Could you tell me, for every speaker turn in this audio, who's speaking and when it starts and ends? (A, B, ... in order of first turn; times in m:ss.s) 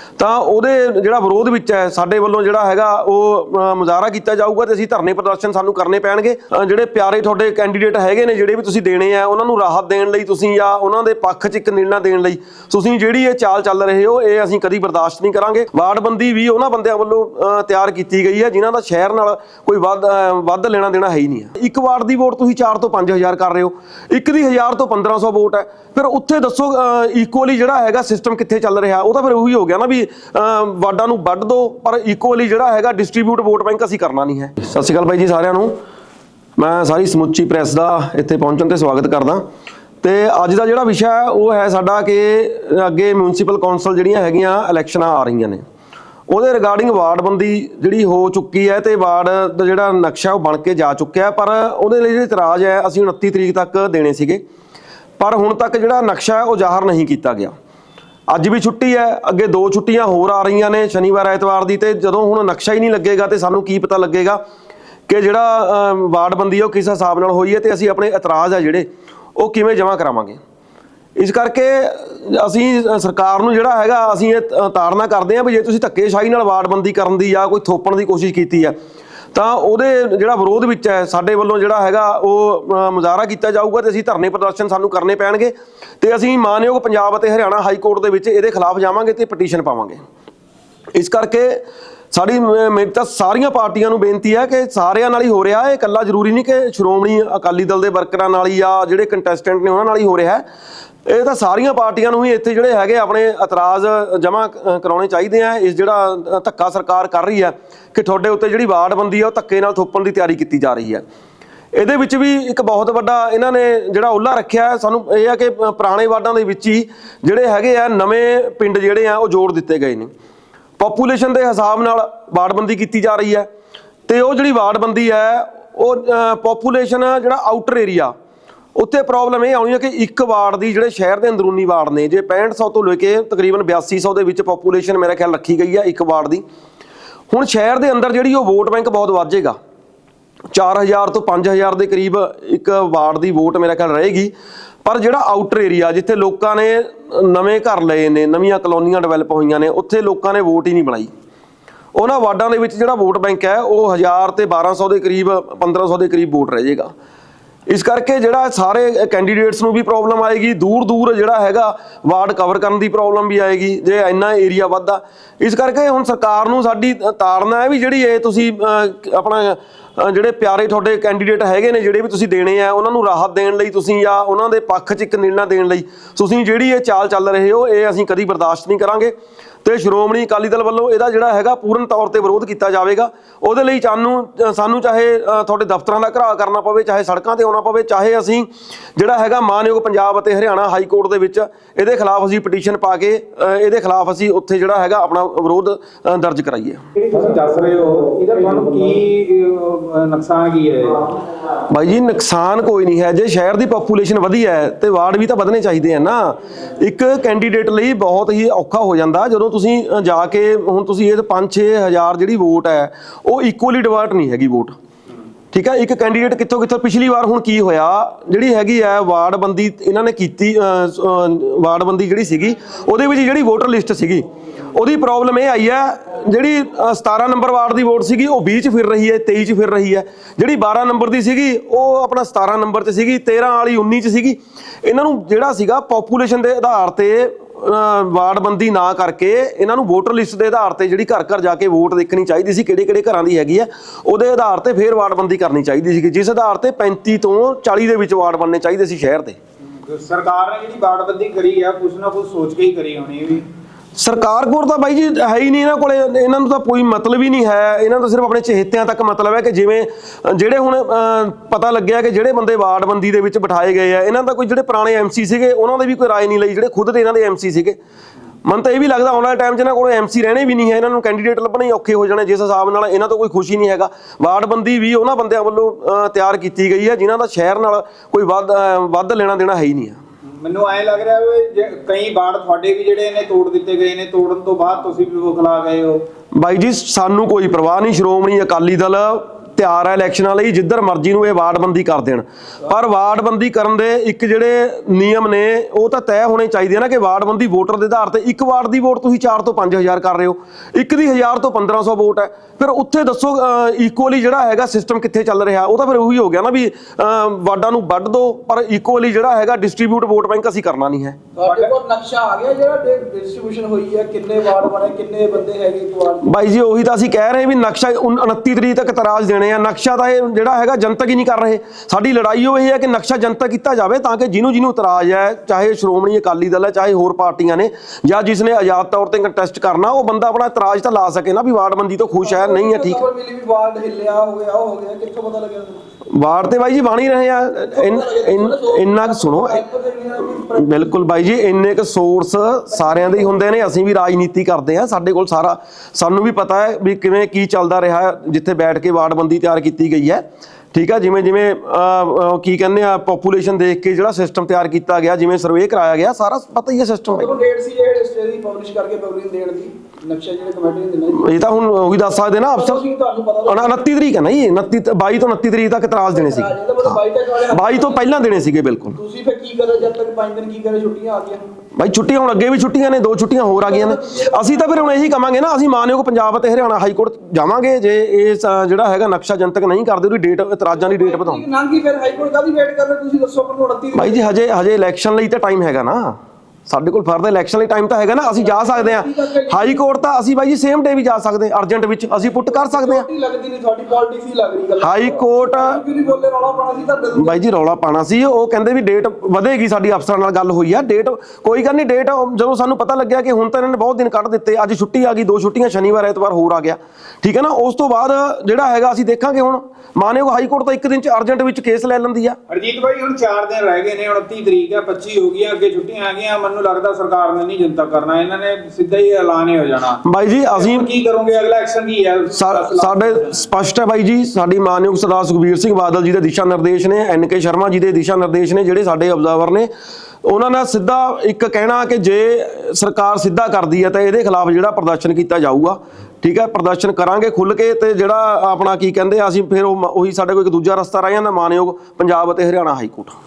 0:00.2-0:35.8 A
0:36.6-0:39.4 A
0:40.0-0:45.6 A
0:46.3-0:54.4 A
0:55.2-0:57.5 A
0:58.3-1:04.4 A
1:05.1-1:10.4 A
1:11.2-1:18.7 A
1:19.3-1:30.0 A
1:30.9-1:40.4 A
1:41.0-1:51.0 A
1:51.7-2:00.1 A
2:00.8-2:03.5 A
2:04.1-2:08.1 A
2:08.8-2:16.4 A
2:17.3-2:19.6 A
2:20.5-2:24.3 A
2:24.8-2:31.1 A
2:31.9-2:36.9 A
2:37.7-3:16.8 A
3:17.0-3:21.1 B
3:21.7-3:34.7 A
3:35.5-4:09.4 A
4:09.8-4:13.4 B
4:14.0-4:27.8 A
4:28.4-4:40.0 A
4:40.4-4:46.0 B
4:46.4-5:11.2 A
5:11.4-5:16.3 C
5:11.4-5:11.7 B
5:16.2-5:33.0 A
5:32.2-5:35.8 C
5:36.1-5:39.6 A
5:37.7-5:40.9 C
5:40.4-5:57.3 A
5:42.7-5:43.4 C
5:57.1-6:01.3 C
6:01.1-6:02.8 A
6:02.5-6:03.8 C
6:03.5-6:09.0 A
6:06.1-6:08.1 C
6:09.0-6:11.4 C
6:11.8-6:21.4 A
6:13.5-6:15.0 C
6:20.8-6:24.3 C
6:23.9-6:33.0 A
6:28.2-6:29.8 C
6:32.4-6:37.4 C
6:34.8-6:35.8 A
6:37.2-6:52.4 A
6:52.5-7:00.0 B
7:00.0-7:00.9 A
7:00.5-7:03.4 B
7:02.3-7:09.7 A
7:10.2-7:23.2 A